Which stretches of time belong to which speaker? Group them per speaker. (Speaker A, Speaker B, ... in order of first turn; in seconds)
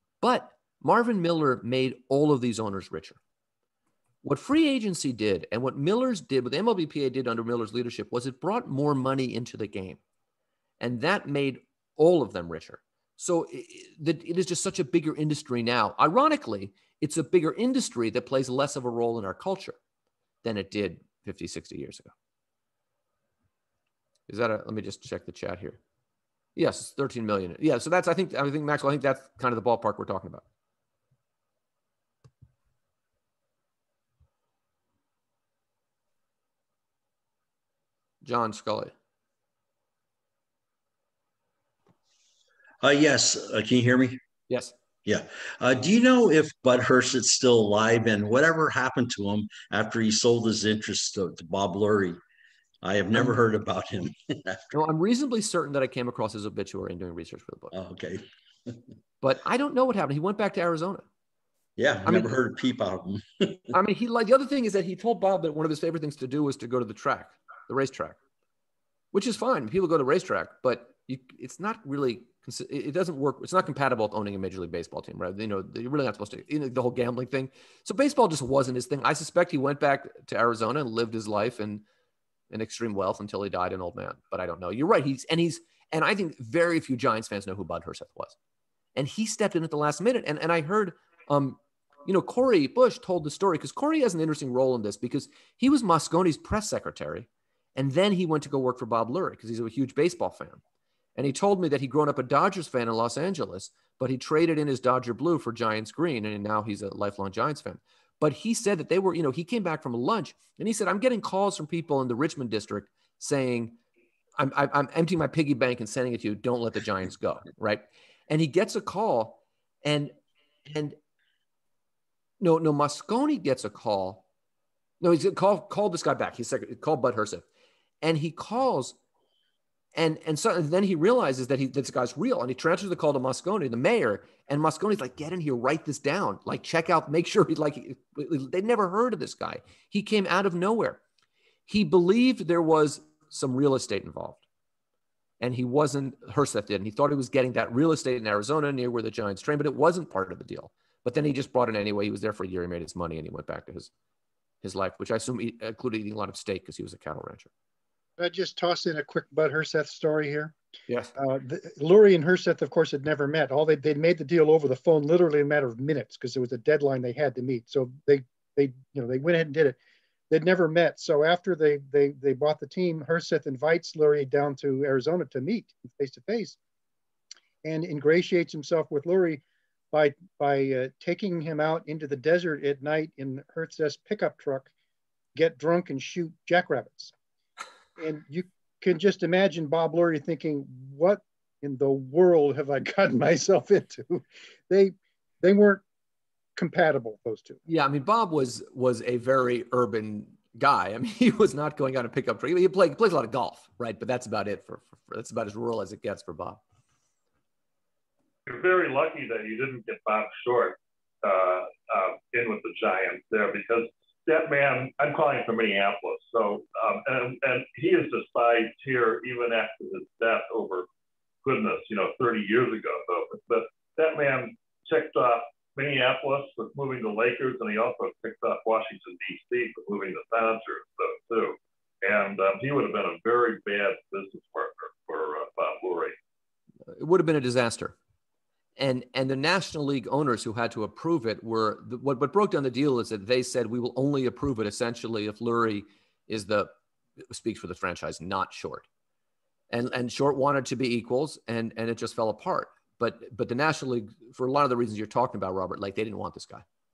Speaker A: 0.2-3.2, 4.2-10.0, 10.8-19.8, 20.4-22.1, 24.3-25.8, 26.6-30.4, 38.2-38.9, 44.5-44.7, 54.7-57.7, 59.2-61.0, 62.0-62.3, 63.7-68.2, 69.1-81.8, 82.5-88.3, 89.0-100.6, 101.2-113.8, 114.4-120.1, 120.7-121.0, 122.4-124.2, 125.0-127.4, 128.0-129.0, 129.9-141.0, 141.7-144.4, 145.4-153.9, 154.6-157.5, 197.7-206.6, 236.9-237.9, 238.8-246.7, 247.3-248.9, 249.7-256.6
Speaker B: 42.8-44.2, 45.0-52.2, 52.8-54.7, 57.7-58.8, 61.8-63.8
Speaker C: 158.2-160.6, 161.2-169.8, 170.3-176.6, 177.6-184.7, 185.3-187.1, 188.0-195.8, 196.6-197.6
Speaker D: 208.5-220.9, 221.4-236.2